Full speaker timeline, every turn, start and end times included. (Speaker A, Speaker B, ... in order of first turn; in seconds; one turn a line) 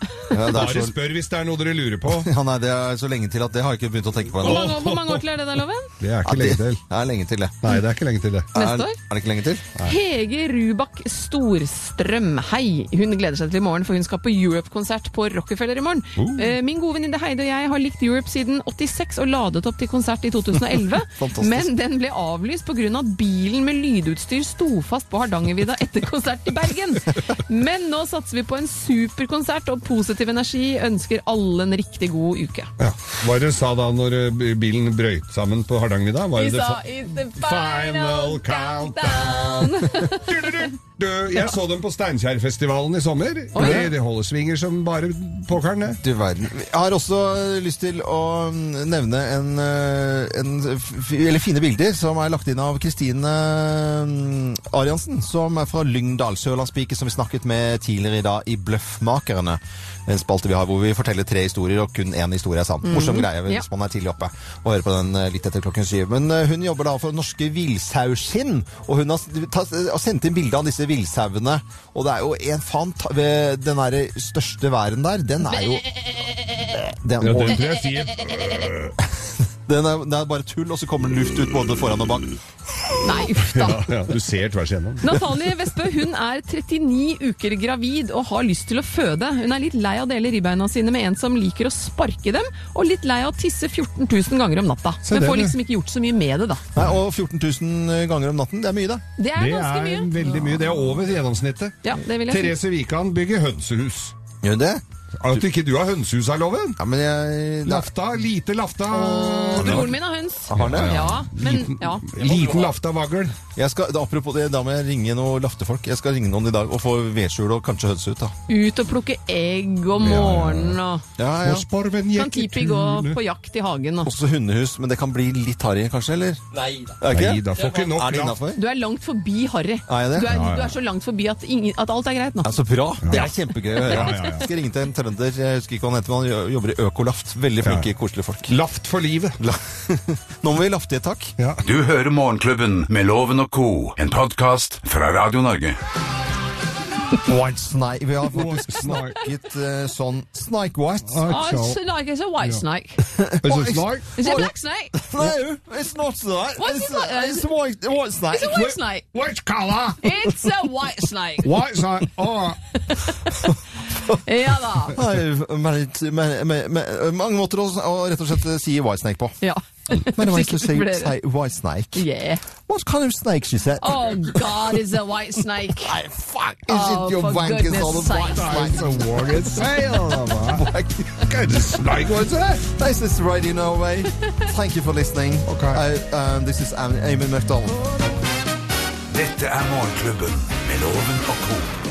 Speaker A: 0.3-0.9
Speaker B: 0.3-2.3
Speaker A: 2.1-4.8
Speaker B: 4.4-5.2
Speaker C: 4.4-5.9
Speaker B: 6.0-6.8
Speaker A: 6.2-7.7
Speaker B: 7.6-8.5
Speaker C: 8.5-9.0
Speaker A: 8.5-9.7
Speaker C: 9.8-32.7
Speaker B: 16.2-16.5
Speaker A: 21.0-21.7
Speaker B: 32.8-46.0
Speaker C: 36.4-40.6
Speaker C: 43.5-43.9
Speaker A: 43.6-43.9
Speaker A: 46.0-76.1
Speaker C: 62.8-63.6
Speaker A: 76.8-77.6
Speaker B: 77.2-78.9
Speaker A: 79.7-82.3
Speaker C: 83.0-83.9
Speaker B: 83.5-85.0
Speaker C: 85.0-96.6
Speaker B: 95.1-95.6
Speaker A: 96.8-99.0
Speaker C: 99.2-100.4
Speaker B: 99.4-104.1
Speaker C: 101.8-102.5
Speaker A: 104.4-105.4
Speaker B: 105.2-106.8
Speaker A: 106.8-107.9
Speaker B: 107.7-110.0
Speaker A: 109.0-109.9
Speaker C: 109.0-112.0
Speaker A: 110.5-111.0
Speaker B: 110.5-113.3
Speaker A: 113.6-118.3
Speaker C: 118.5-121.0
Speaker B: 120.0-120.8
Speaker A: 121.2-121.7
Speaker B: 121.4-123.2
Speaker C: 122.2-124.1
Speaker A: 124.0-128.6
Speaker B: 127.1-128.4
Speaker C: 128.6-132.5
Speaker A: 129.9-130.4
Speaker B: 130.3-130.8
Speaker A: 132.4-138.5
Speaker B: 133.0-134.5
Speaker C: 133.1-134.3
Speaker B: 137.6-137.9
Speaker B: 138.5-139.4
Speaker A: 139.4-141.3
Speaker D: 141.6-145.8
Speaker A: 147.2-151.2
Speaker B: 148.3-149.2
Speaker B: 151.1-151.8
Speaker C: 151.3-153.0
Speaker A: 153.1-158.7
Speaker B: 153.4-154.4
Speaker C: 154.2-155.0
Speaker C: 156.6-157.5
Speaker C: 158.3-159.1
Speaker B: 158.5-160.3
Speaker C: 160.0-161.5
Speaker B: 161.4-162.6
Speaker C: 162.8-163.5
Speaker C: 164.2-165.0
Speaker A: 164.9-169.4
Speaker C: 169.4-171.2
Speaker A: 170.2-172.1
Speaker C: 171.9-172.4
Speaker A: 172.7-174.7
Speaker C: 173.8-175.9
Speaker A: 175.6-179.6
Speaker C: 176.7-178.7
Speaker B: 178.4-182.7
Speaker A: 180.6-181.1
Speaker A: 182.7-187.8
Speaker B: 185.5-185.8
Speaker D: 189.1-191.7